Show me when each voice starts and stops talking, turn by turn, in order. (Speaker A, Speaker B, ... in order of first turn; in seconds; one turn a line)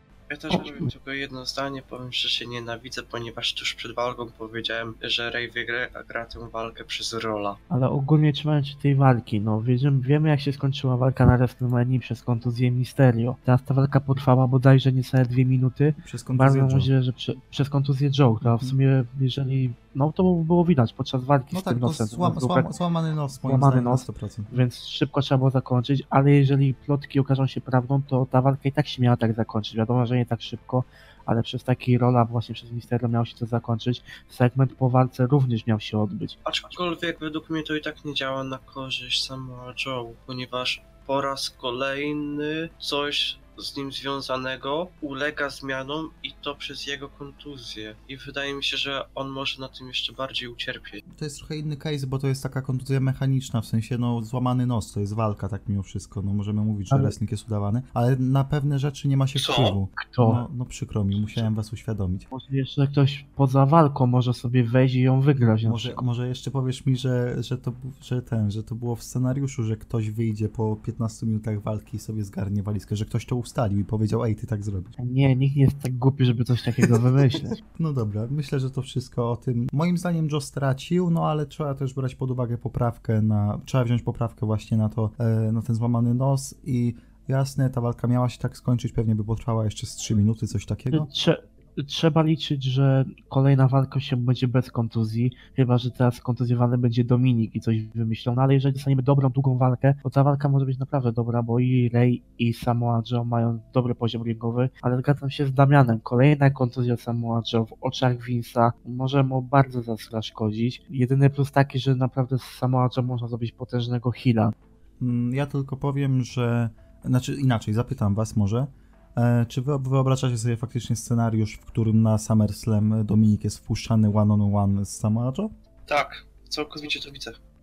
Speaker A: 0.3-7.6
Speaker B: 0.5-0.8
Speaker B: 7.7-22.7
Speaker C: 16.0-16.9
Speaker C: 18.4-18.8
Speaker C: 21.5-24.5
Speaker B: 23.4-36.4
Speaker A: 36.4-51.0
Speaker C: 51.1-62.3
Speaker A: 59.3-59.8
Speaker B: 60.0-60.4
Speaker B: 62.3-66.0
Speaker C: 65.6-74.9
Speaker B: 75.0-77.6
Speaker C: 77.7-91.1
Speaker B: 90.9-114.5
Speaker C: 115.0-125.5
Speaker A: 125.9-127.4